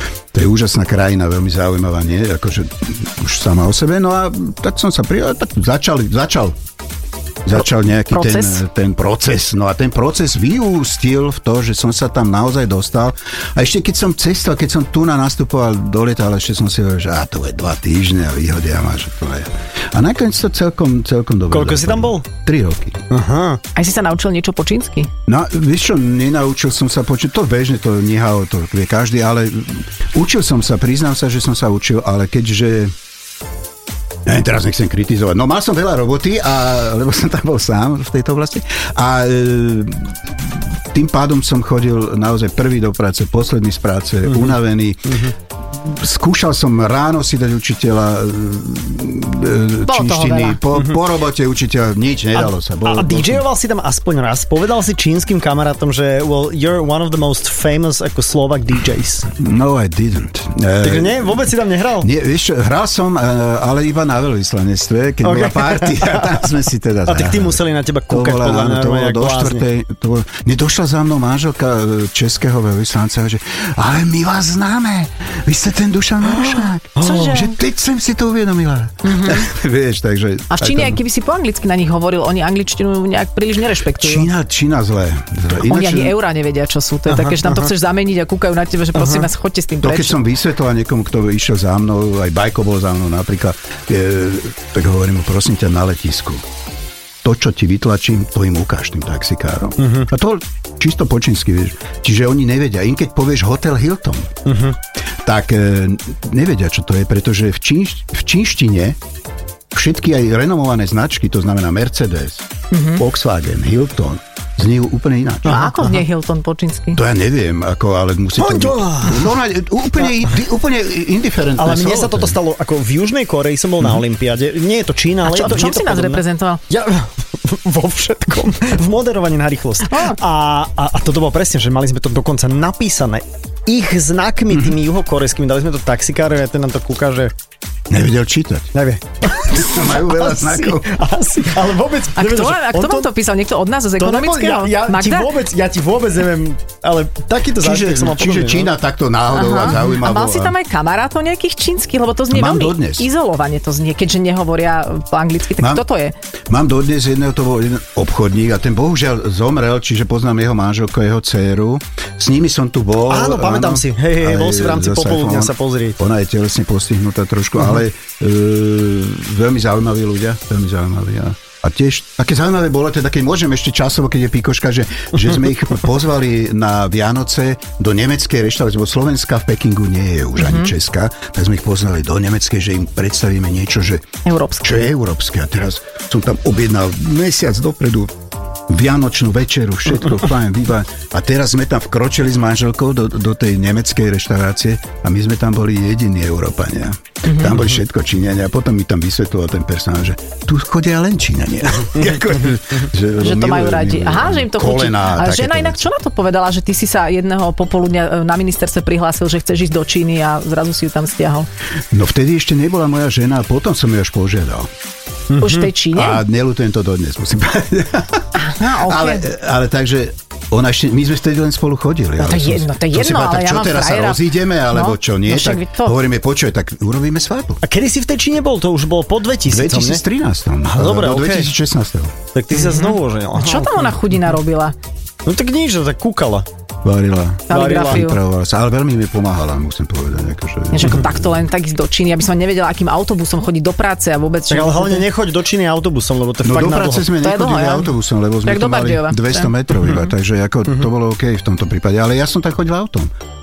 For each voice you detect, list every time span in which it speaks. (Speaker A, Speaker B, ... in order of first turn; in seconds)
Speaker A: 0.3-6.6, 7.4-23.0, 25.3-32.9, 34.2-53.4, 59.4-81.0, 84.0-86.2, 89.8-96.4, 97.2-104.3, 105.2-109.0, 109.7-115.8, 116.9-122.4, 137.9-138.7, 139.4-140.9, 147.6-150.6, 152.3-153.1, 155.6-155.8, 156.5-184.1, 184.6-188.1, 188.7-205.8, 211.9-214.7, 215.9-227.6, 229.4-232.2, 236.8-241.3, 246.4-253.1
Speaker B: 8.1-8.6, 23.7-25.1, 49.8-50.6, 77.0-77.5, 79.0-79.5, 80.5-84.3, 85.7-90.2, 112.7-113.0, 115.4-117.0, 125.2-126.6, 129.9-130.2, 142.2-145.4, 149.3-156.1, 180.4-180.7, 184.2-184.8, 197.2-197.5, 203.2-211.5, 215.4-216.2, 218.4-219.3, 222.2-226.0, 232.5-234.7, 237.5-238.2, 240.7-245.1, 247.2-247.9, 248.4-249.5
Speaker C: 21.5-22.2, 23.1-23.6, 44.3-44.5, 50.7-51.0, 52.3-59.3, 60.8-62.1, 65.2-66.3, 67.1-69.6, 77.0-77.4, 87.1-87.7, 88.9-89.3, 99.8-100.1, 104.5-104.8, 118.4-119.3, 121.6-137.3, 138.7-143.1, 144.0-148.7, 163.1-166.0, 215.3-215.7, 227.6-230.0, 230.7-231.5, 232.3-234.0, 235.2-236.5, 237.5-238.1, 244.5-247.1